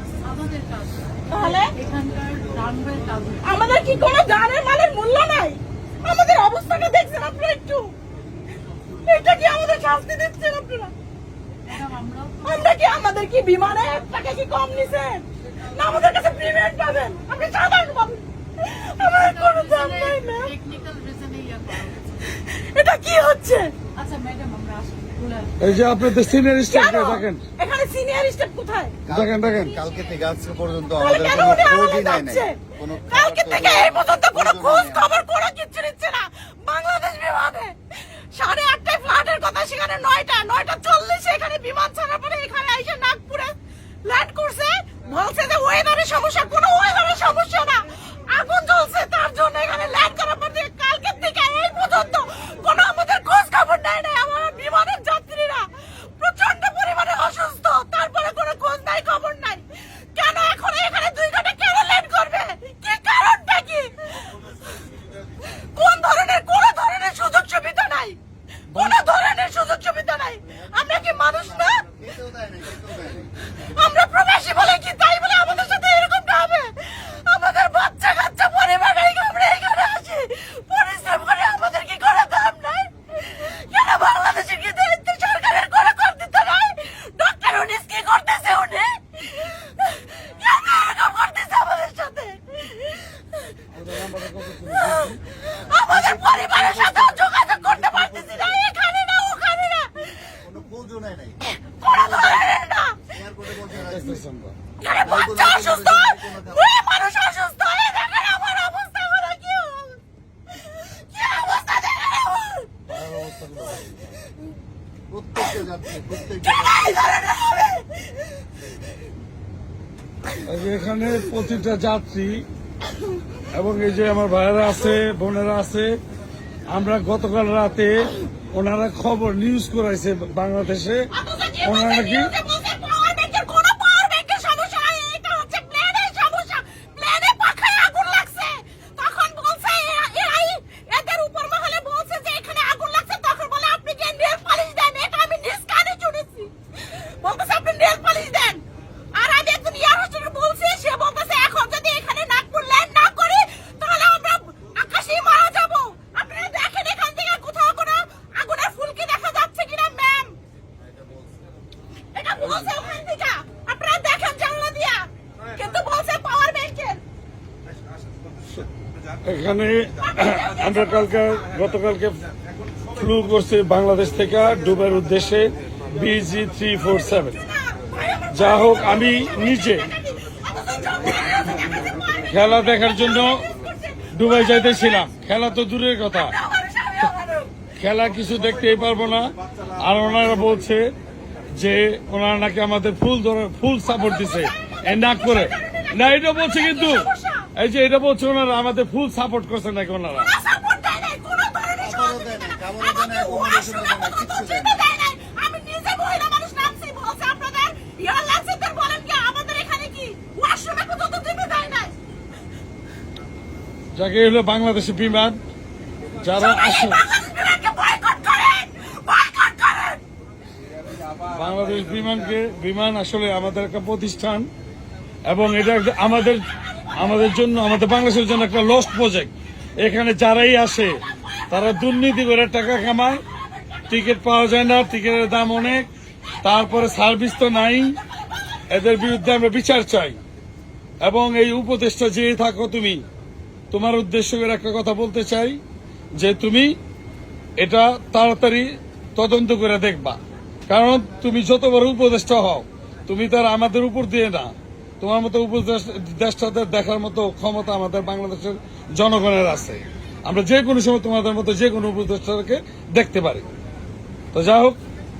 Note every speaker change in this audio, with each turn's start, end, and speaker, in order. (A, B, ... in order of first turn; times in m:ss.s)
0:00.3-0:00.8 A
0:01.3-0:01.8 B
0:01.8-0:03.4 A
0:03.4-0:07.9 B
0:09.0-0:10.9 B
0:11.7-0:12.4 A
0:12.4-0:20.5 B
0:19.5-0:22.1 A
0:22.3-0:23.7 B
0:24.0-0:25.5 A
0:25.6-0:27.4 C
0:26.7-0:29.0 B
0:29.0-0:35.1 D
0:29.1-0:29.8 C
0:31.0-0:32.6 B
0:33.1-1:04.3 B
1:05.4-1:08.2 B
1:08.7-1:11.8 B
1:10.6-1:13.3 D
1:13.5-1:33.1 B
1:33.7-1:35.0 C
1:34.8-1:40.4 B
1:35.5-1:38.6 D
1:40.4-1:42.5 D
1:41.5-1:43.0 B
1:43.1-1:44.2 D
1:43.8-1:44.6 C
1:44.8-1:50.0 B
1:45.0-1:46.7 D
1:50.5-1:52.7 B
1:52.9-1:54.1 C
1:55.1-1:56.8 D
1:56.4-1:58.0 B
2:00.5-2:02.5 C
2:03.5-2:06.0 C
2:06.7-2:11.1 C
2:11.1-2:40.3 B
2:11.6-2:12.3 C
2:40.8-2:41.3 D
2:42.1-2:47.0 B
2:49.2-2:52.2 C
2:50.0-2:50.8 B
2:52.9-2:57.4 C
2:57.3-3:02.0 B
2:58.3-2:59.9 C
3:02.3-3:03.4 C
3:03.1-3:04.7 B
3:04.1-3:06.3 C
3:06.2-3:07.7 B
3:07.8-3:11.0 C
3:11.5-3:20.3 C
3:13.9-3:17.5 B
3:20.2-3:31.9 B
3:21.8-3:24.8 D
3:33.9-3:35.4 C
3:36.2-3:37.0 C
3:36.2-3:40.0 B
3:41.3-3:44.5 C
3:45.2-3:46.4 C
3:46.9-3:53.2 C
3:53.9-3:55.9 C
3:56.4-3:58.0 C
3:58.7-4:00.2 C
4:01.0-4:03.0 C
4:03.7-4:05.6 C
4:06.2-4:06.8 C
4:07.6-4:23.5 C
4:24.3-4:24.8 C